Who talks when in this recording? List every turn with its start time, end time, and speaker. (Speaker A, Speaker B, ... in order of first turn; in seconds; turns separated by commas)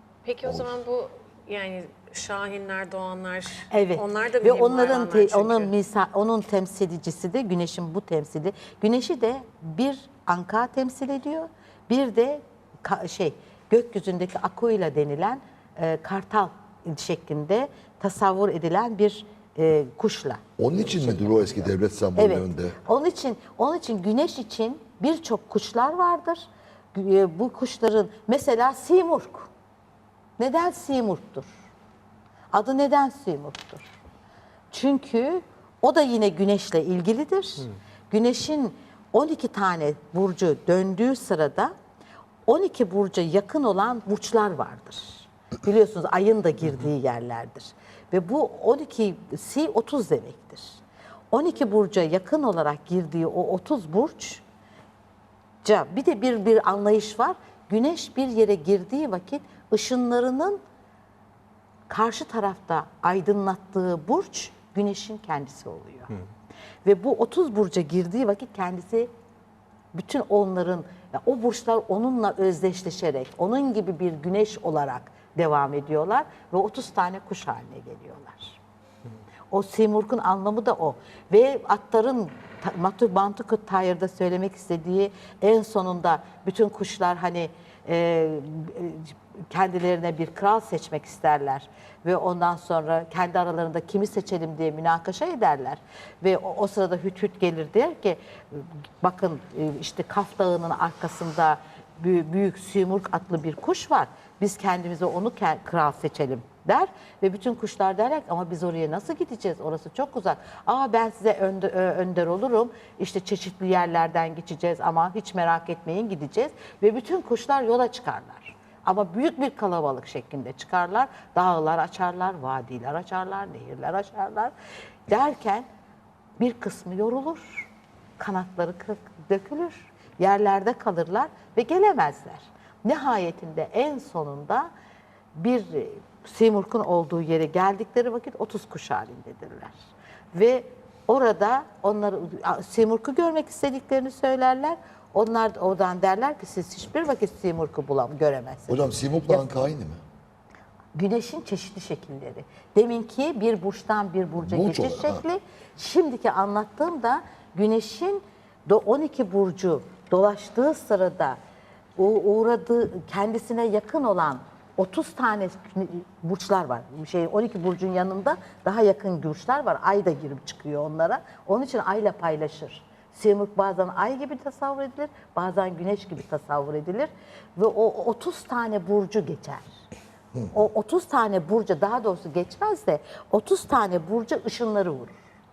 Speaker A: 0.2-5.7, Speaker B: 0.5-0.8, Speaker C: 3.7-29.5, Speaker B: 20.6-22.8, Speaker C: 30.4-31.6, Speaker C: 32.5-33.9, Speaker C: 34.7-41.7, Speaker C: 42.5-50.8, Speaker C: 51.3-54.4, Speaker C: 55.6-60.6, Speaker C: 61.9-66.1, Speaker C: 66.8-69.1, Speaker C: 69.9-78.6, Speaker C: 79.5-124.5, Speaker C: 125.1-125.6, Speaker C: 126.4-134.7, Speaker C: 135.3-139.8, Speaker C: 140.3-149.6, Speaker B: 148.7-150.0, Speaker C: 150.9-161.4, Speaker B: 154.4-155.2, Speaker C: 162.0-179.7, Speaker C: 180.5-185.2